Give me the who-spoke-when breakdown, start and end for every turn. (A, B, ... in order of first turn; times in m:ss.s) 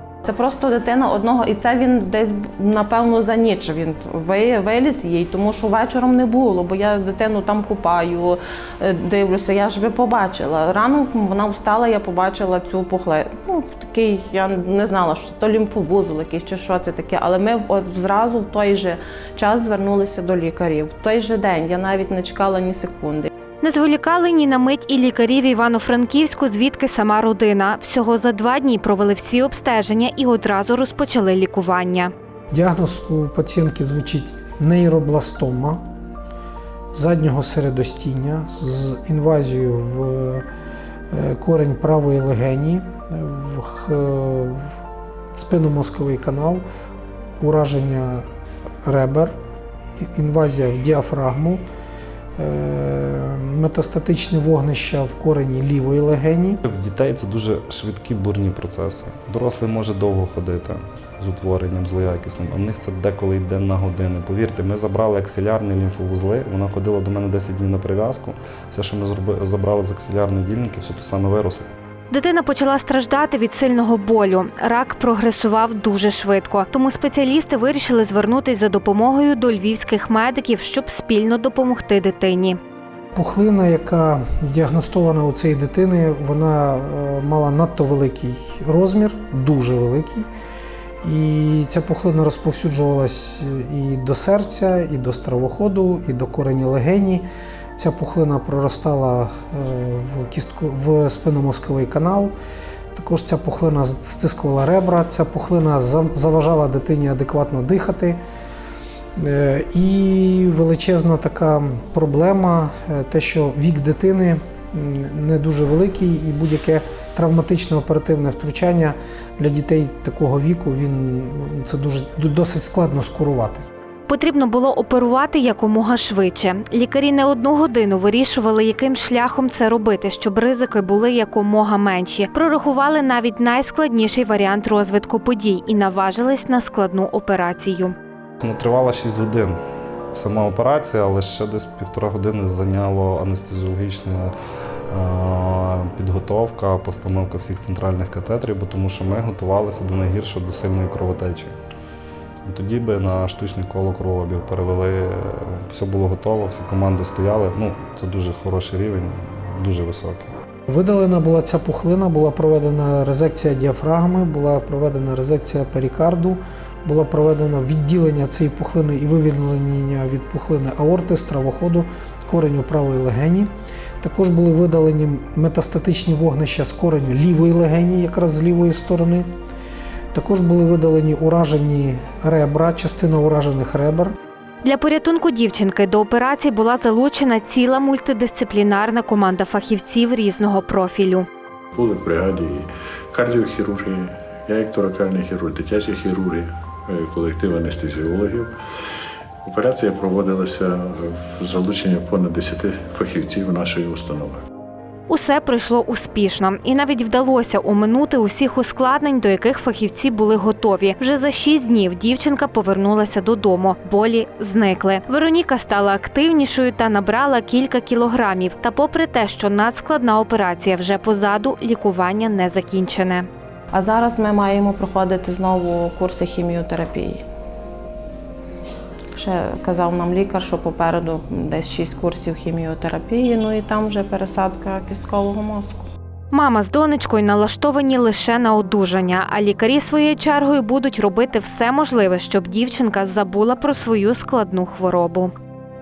0:00.2-0:23.3 A
0:23.6-0:32.1 B
0:32.5-0:35.8 C
0:36.9-0:40.4 C
0:41.1-0:44.7 C
0:45.3-0:46.6 C
0:47.4-0:48.2 C
0:48.8-0:49.3 C
0:50.0-0:51.6 C
0:52.4-0:56.6 C
0:56.6-1:11.7 D
1:12.1-1:22.6 B
1:23.1-1:30.3 C
1:31.0-1:42.3 C
1:42.9-1:48.2 C
1:49.2-2:03.7 C
2:04.1-2:17.9 B
2:18.4-2:19.6 D
2:20.1-2:24.3 D
2:24.9-2:31.5 D
2:32.4-2:40.3 D
2:40.7-2:59.3 C
3:00.1-3:04.1 C
3:04.6-3:11.3 B
3:11.7-3:18.5 E
3:19.4-3:24.4 E
3:25.1-3:43.3 B
3:43.7-3:47.2 A
3:49.2-3:55.9 A
3:56.3-4:05.3 B